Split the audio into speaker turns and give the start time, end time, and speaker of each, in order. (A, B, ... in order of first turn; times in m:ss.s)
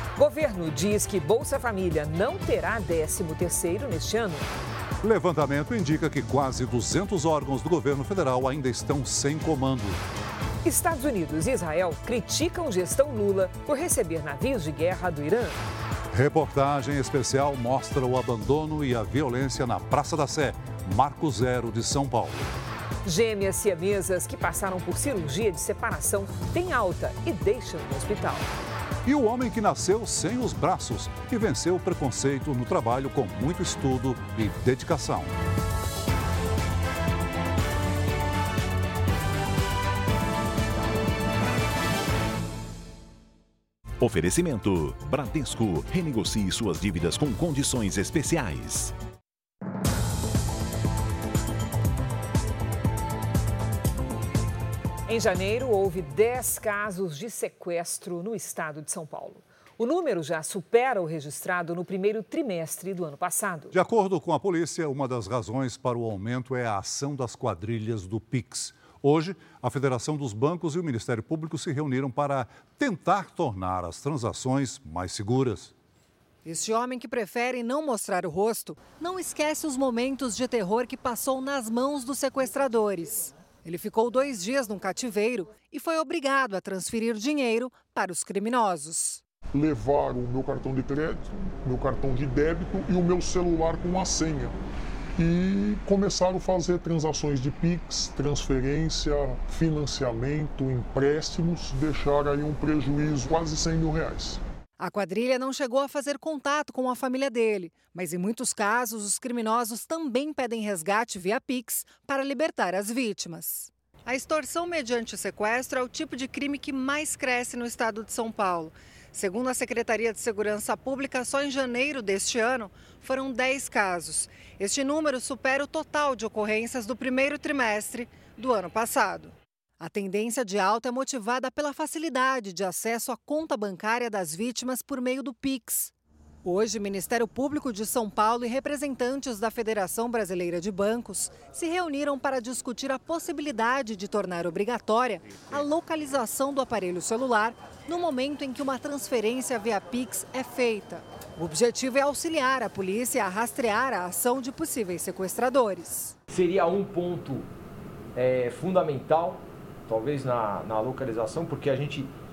0:00.2-0:04.5 A
0:05.0-0:10.0 B
0:10.6-0:15.6 A
0:16.1-0:22.5 B
0:23.0-0:28.5 A
0:29.0-0:35.3 B
0:44.0-0:48.9 C
0:55.1-1:03.8 A
1:03.7-1:15.7 B
1:16.4-1:29.2 D
1:29.5-1:34.6 E
1:35.2-1:44.4 E
1:44.8-2:15.9 D
2:16.4-2:36.1 D
2:36.3-2:37.5 F
2:38.2-2:42.1 F